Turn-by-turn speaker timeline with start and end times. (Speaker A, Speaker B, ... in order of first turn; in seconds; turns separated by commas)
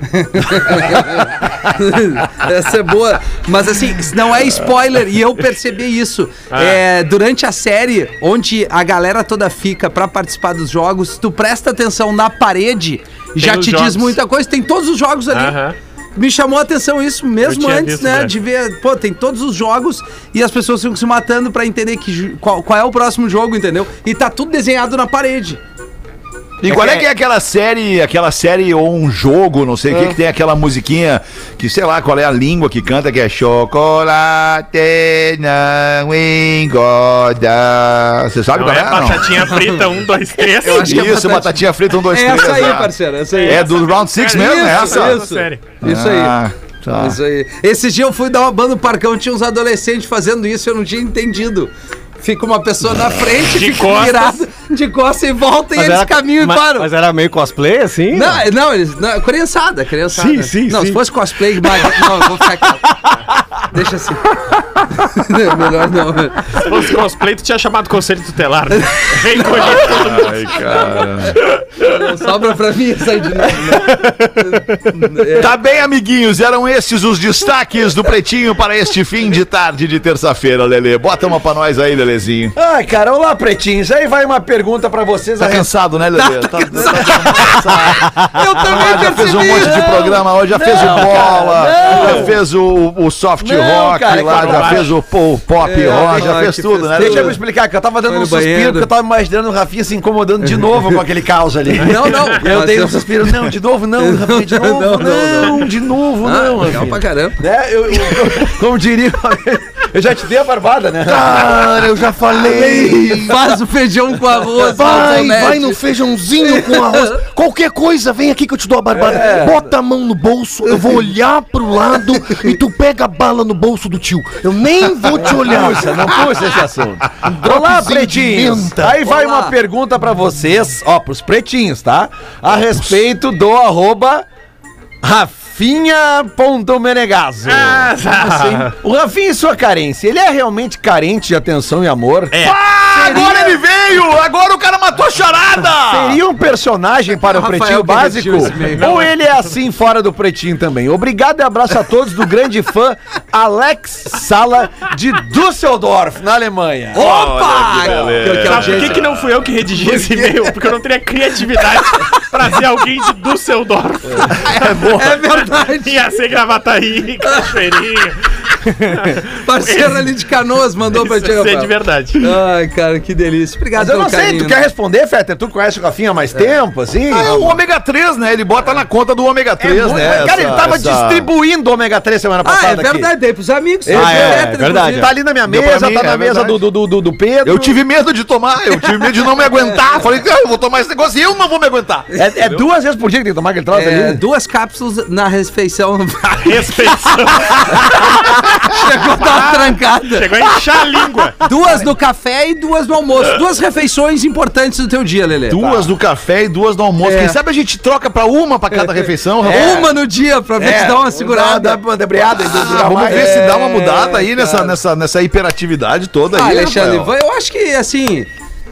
Speaker A: 0.1-15.6, Speaker B: 6.5-6.8, Speaker B: 13.4-14.2, Speaker B: 15.3-15.8, Speaker A: 16.1-25.6, Speaker B: 17.4-18.3, Speaker C: 26.6-39.5, Speaker A: 26.7-27.1, Speaker B: 38.5-41.1, Speaker A: 39.4-39.9, Speaker A: 40.4-43.7, Speaker C: 40.8-45.2, Speaker B: 43.3-45.7, Speaker A: 44.3-46.4, Speaker C: 45.8-47.2, Speaker A: 46.9-57.0, Speaker B: 53.5-54.4, Speaker D: 55.7-58.4, Speaker A: 58.1-63.0, Speaker D: 60.1-61.0, Speaker A: 63.7-66.6, Speaker B: 66.5-70.9, Speaker A: 68.8-69.9, Speaker C: 69.8-71.4, Speaker A: 71.8-75.5, Speaker C: 75.2-82.5, Speaker E: 82.6-85.7, Speaker C: 85.4-97.4, Speaker A: 86.5-90.2, Speaker E: 86.8-87.2, Speaker E: 88.8-89.1, Speaker E: 90.5-92.4, Speaker A: 91.8-92.2, Speaker E: 93.4-95.0, Speaker B: 94.2-94.9, Speaker A: 95.6-97.4, Speaker E: 95.9-96.4, Speaker E: 96.9-111.9, Speaker A: 98.1-98.9, Speaker A: 100.4-101.0, Speaker A: 101.8-105.7, Speaker B: 101.8-102.4, Speaker A: 106.2-107.4, Speaker F: 111.0-113.4, Speaker A: 112.4-115.8, Speaker F: 114.6-126.1, Speaker A: 116.4-117.2, Speaker E: 119.0-119.7, Speaker E: 125.2-134.3, Speaker F: 127.2-129.0, Speaker A: 129.0-129.6, Speaker C: 132.7-133.0, Speaker E: 135.0-142.4, Speaker B: 137.5-138.7, Speaker B: 142.3-142.6, Speaker C: 142.4-146.2, Speaker E: 143.0-143.5, Speaker A: 143.1-143.4, Speaker E: 145.9-157.1, Speaker A: 147.2-148.9, Speaker B: 148.7-149.5, Speaker A: 156.9-159.1, Speaker C: 157.0-159.2, Speaker B: 157.9-168.2, Speaker A: 159.8-160.6, Speaker A: 164.3-166.0, Speaker C: 164.6-165.0, Speaker B: 168.8-170.1, Speaker A: 169.4-174.6, Speaker B: 170.9-172.3, Speaker E: 173.8-177.4, Speaker C: 177.1-181.3, Speaker A: 177.2-177.5, Speaker E: 179.6-183.1, Speaker A: 182.4-185.1, Speaker E: 183.9-187.8, Speaker C: 183.9-184.3, Speaker D: 183.9-185.1, Speaker C: 185.4-186.6, Speaker C: 187.4-192.6, Speaker E: 192.1-194.2, Speaker A: 193.7-200.4, Speaker B: 196.4-198.1, Speaker B: 199.2-201.4, Speaker A: 201.4-205.8, Speaker C: 205.5-209.9, Speaker A: 207.0-207.4, Speaker E: 209.4-209.9, Speaker A: 209.5-211.8, Speaker E: 210.6-213.5, Speaker C: 212.5-217.1, Speaker A: 212.5-214.7, Speaker A: 216.3-218.3